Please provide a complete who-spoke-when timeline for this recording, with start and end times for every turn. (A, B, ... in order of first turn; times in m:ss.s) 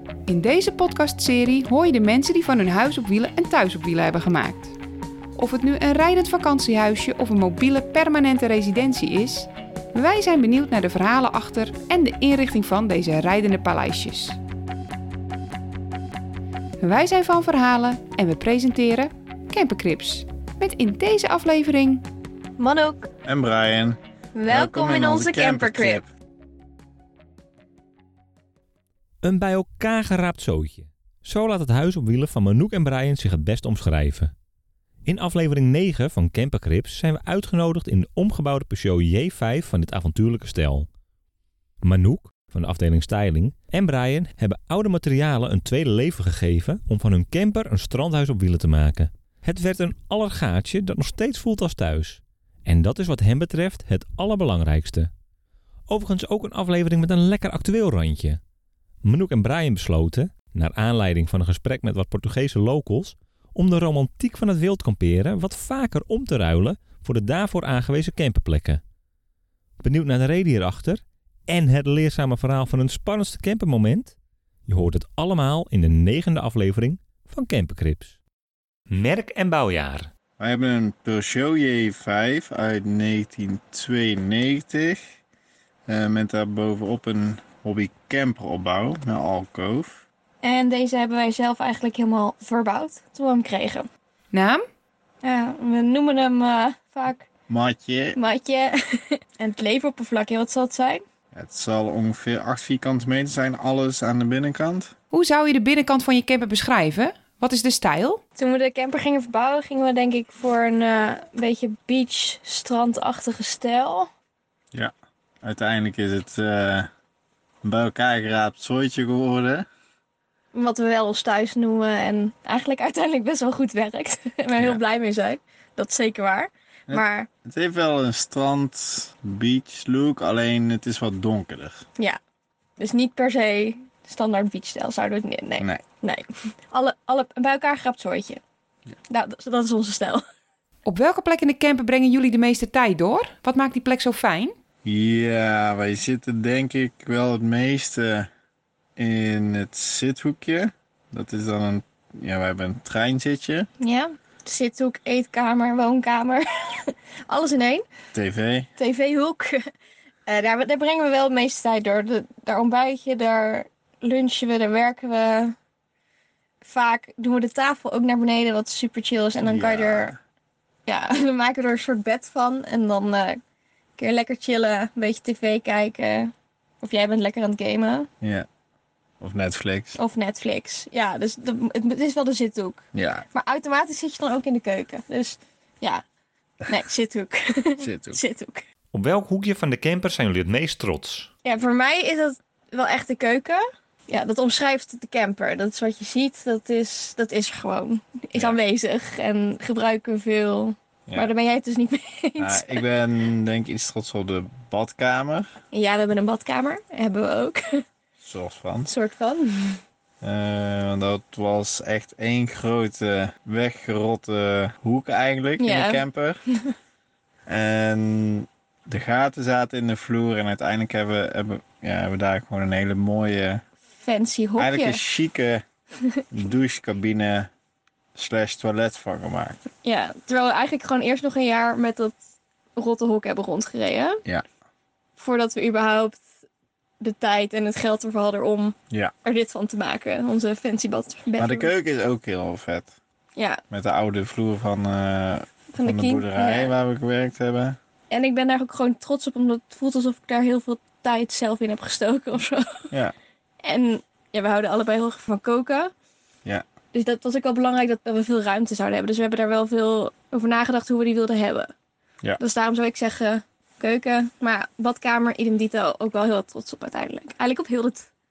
0:00.3-0:04.8 A
0:05.4-0:14.4 A
0:16.8-0:22.1 A
0:22.6-0:23.1 B
0:23.2-0:26.1 C
0:24.4-0:26.0 B
0:29.2-0:34.3 D
0:35.0-0:40.9 D
0:41.8-0:55.1 D
0:55.9-0:58.4 D
0:59.0-1:08.8 D
1:09.8-1:14.1 D
1:14.7-1:18.2 D
1:18.9-1:20.1 D
1:20.4-1:25.0 C
1:25.9-1:30.0 C
1:30.4-1:33.9 B
1:34.3-1:34.6 A
1:35.2-1:37.3 B
1:37.5-1:38.2 C
1:38.1-1:41.0 B
1:41.3-1:44.9 C
1:45.1-1:48.2 A
1:48.4-1:54.1 B
1:55.4-1:56.9 C
1:57.6-1:59.6 C
2:00.5-2:07.3 B
2:06.9-2:11.8 C
2:12.8-2:18.4 B
2:19.1-2:20.2 B
2:20.8-2:24.6 A
2:24.8-2:28.3 C
2:29.0-2:33.7 C
2:33.8-2:37.9 B
2:38.1-2:38.7 C
2:38.8-2:39.6 B
2:40.3-2:45.6 B
2:46.6-2:50.2 B
2:49.4-2:50.2 C
2:50.9-2:53.4 B
2:54.0-2:58.1 B
2:59.2-3:00.0 C
3:00.0-3:06.0 B
3:02.9-3:03.3 C
3:06.7-3:08.6 B
3:07.8-3:08.2 C
3:08.9-3:11.3 D
3:11.4-3:22.8 B
3:21.1-3:21.3 C
3:22.4-3:25.5 C
3:25.7-3:27.8 B
3:28.2-3:28.9 C
3:28.9-3:29.8 B
3:30.2-3:36.4 C
3:35.6-3:36.7 B
3:37.5-3:43.6 C
3:44.0-3:45.0 B
3:44.6-3:45.6 C
3:46.3-3:47.5 C
3:48.2-3:49.6 C
3:49.8-3:52.2 B
3:52.8-3:54.2 B
3:55.2-3:56.2 B
3:57.0-4:01.7 B
4:01.4-4:02.9 C
4:03.4-4:03.6 B
4:03.7-4:07.8 C
4:05.7-4:06.8 B
4:08.1-4:12.9 B
4:13.6-4:15.9 B
4:16.9-4:21.7 B
4:22.4-4:28.1 B